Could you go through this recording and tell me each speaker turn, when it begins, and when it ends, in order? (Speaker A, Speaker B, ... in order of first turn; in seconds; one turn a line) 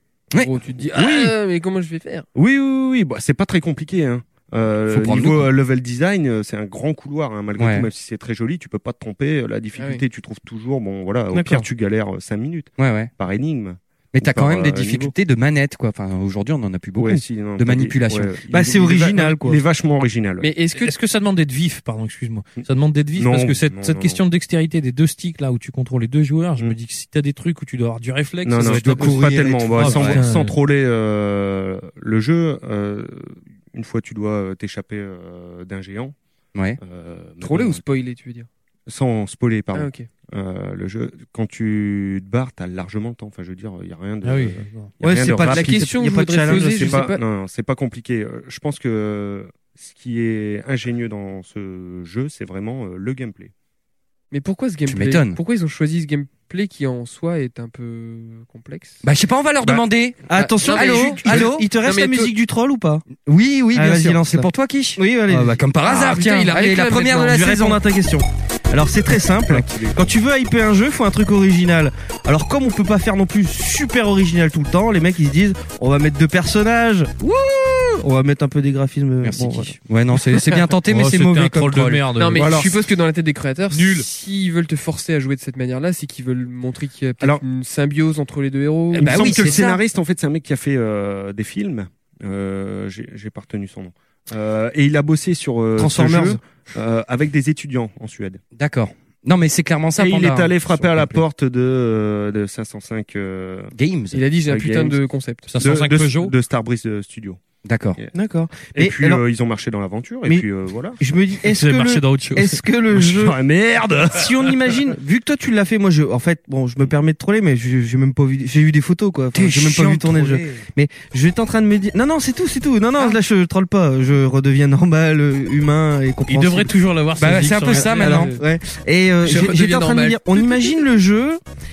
Speaker A: 0.3-2.3
Speaker B: 0.9-1.3
Speaker B: 2.3-15.1
Speaker C: 4.9-5.5
Speaker C: 7.6-7.9
Speaker A: 9.8-10.0
Speaker D: 11.3-11.7
Speaker C: 12.8-13.1
Speaker C: 14.1-18.3
Speaker B: 17.0-20.5
Speaker D: 18.5-19.6
Speaker A: 20.4-20.9
Speaker E: 20.7-30.6
Speaker B: 23.1-24.2
Speaker B: 28.4-36.1
Speaker C: 28.6-30.2
Speaker B: 36.8-37.8
Speaker A: 37.4-38.5
Speaker B: 38.9-53.5
Speaker A: 39.7-40.1
Speaker E: 44.2-44.9
Speaker D: 45.0-47.1
Speaker A: 45.4-47.2
Speaker A: 54.3-59.0
Speaker C: 54.9-55.4
Speaker C: 59.0-61.7
Speaker D: 60.3-63.1
Speaker A: 60.3-62.3
Speaker C: 63.2-67.8
Speaker D: 63.7-65.6
Speaker A: 65.8-67.4
Speaker D: 67.2-79.7
Speaker B: 69.5-70.0
Speaker C: 79.2-82.0
Speaker E: 80.8-82.7
Speaker A: 82.2-89.5
Speaker B: 82.3-82.8
Speaker E: 83.7-84.0
Speaker B: 89.0-98.4
Speaker C: 89.0-89.8
Speaker D: 95.8-96.4
Speaker C: 98.5-101.2
Speaker B: 100.0-103.7
Speaker C: 103.7-104.2
Speaker A: 104.1-105.5
Speaker B: 104.5-105.0
Speaker E: 105.5-106.3
Speaker B: 105.6-107.4
Speaker C: 107.6-108.0
Speaker D: 108.1-109.2
Speaker B: 108.7-111.0
Speaker D: 111.0-113.4
Speaker E: 111.4-112.6
Speaker B: 112.9-114.3
Speaker D: 114.1-126.7
Speaker C: 119.3-120.6
Speaker E: 126.3-128.3
Speaker C: 127.2-128.3
Speaker D: 127.7-131.4
Speaker A: 129.2-130.8